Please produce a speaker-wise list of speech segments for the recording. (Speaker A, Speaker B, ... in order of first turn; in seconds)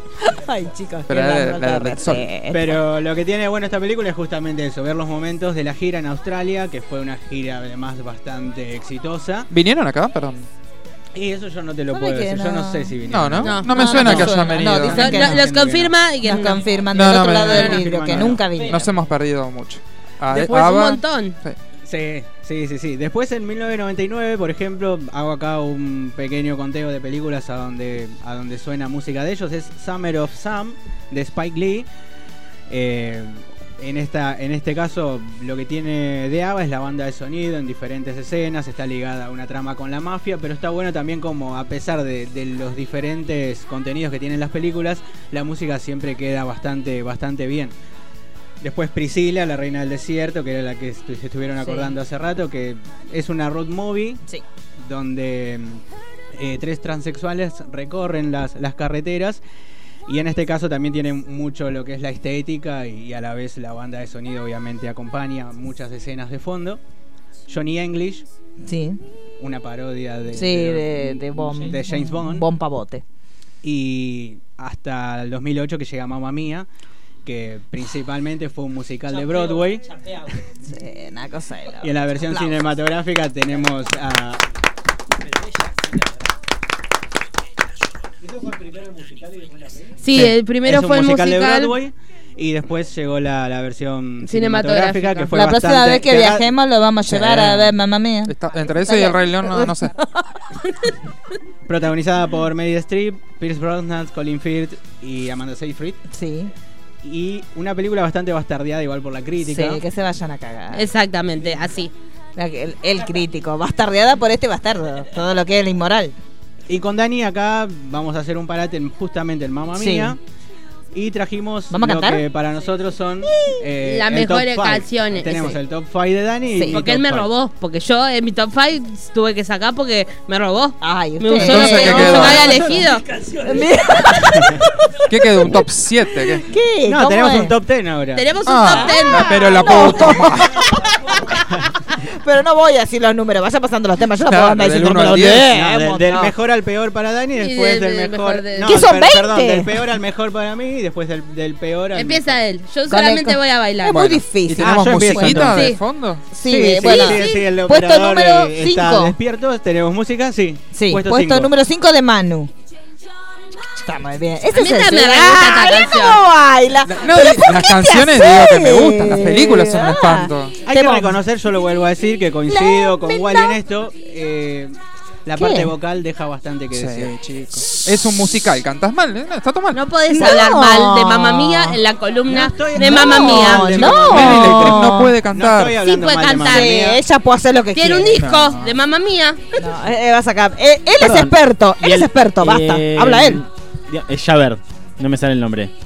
Speaker A: 0.2-2.7, 11.9-12.9, 13.6-15.4, 16.2-18.9, 51.6-51.9, 68.6-69.0, 70.3-73.0, 80.7-82.6, 95.3-98.3, 98.8-100.2, 106.1-106.5, 109.5-110.9, 112.3-116.1, 119.8-120.1, 121.7-122.2, 126.5-126.8, 130.8-135.6, 136.4-137.5, 138.7-141.4, 142.1-146.3, 148.6-149.7, 152.9-155.7, 156.3-159.1, 160.7-162.5, 163.8-171.2, 172.5-173.6, 175.4-175.7, 180.1-181.8, 182.7-185.1, 186.4-188.2, 189.6-193.4
Speaker B: 1.1-2.3, 9.5-10.5, 13.1-15.0, 16.9-21.6, 97.3-97.6, 98.3-99.9, 131.3-132.6, 135.1-136.4, 138.4-140.6, 144.2-145.5, 154.4-156.2, 166.8-170.6, 176.7-179.8, 184.0-185.8, 188.2-188.7
Speaker C: 2.5-9.5, 11.1-16.0, 17.4-18.5, 21.9-31.9, 32.7-47.7, 48.6-54.2, 54.8-55.8, 56.3-59.4, 60.1-66.8, 67.5-68.3, 69.4-72.5, 73.6-76.7, 77.2-79.9, 81.8-84.4, 90.2-96.5, 101.7-106.0, 107.0-109.8, 116.7-120.2, 120.9-127.3, 134.3-134.6, 136.8-138.3, 145.5-152.4, 154.6-155.7, 156.4-161.5, 170.6-177.1, 182.3-187.0
Speaker D: 13.4-13.8, 14.9-16.7, 20.3-21.4, 90.0-91.8, 94.2-95.3, 110.7-111.9, 123.8-125.6, 126.7-133.0, 138.1-139.8, 147.4-148.8, 151.9-154.2, 155.5-155.8, 156.8-157.5, 164.5-166.2, 179.7-183.9, 185.8-186.7, 187.7-189.4
Speaker E: 191.0-195.7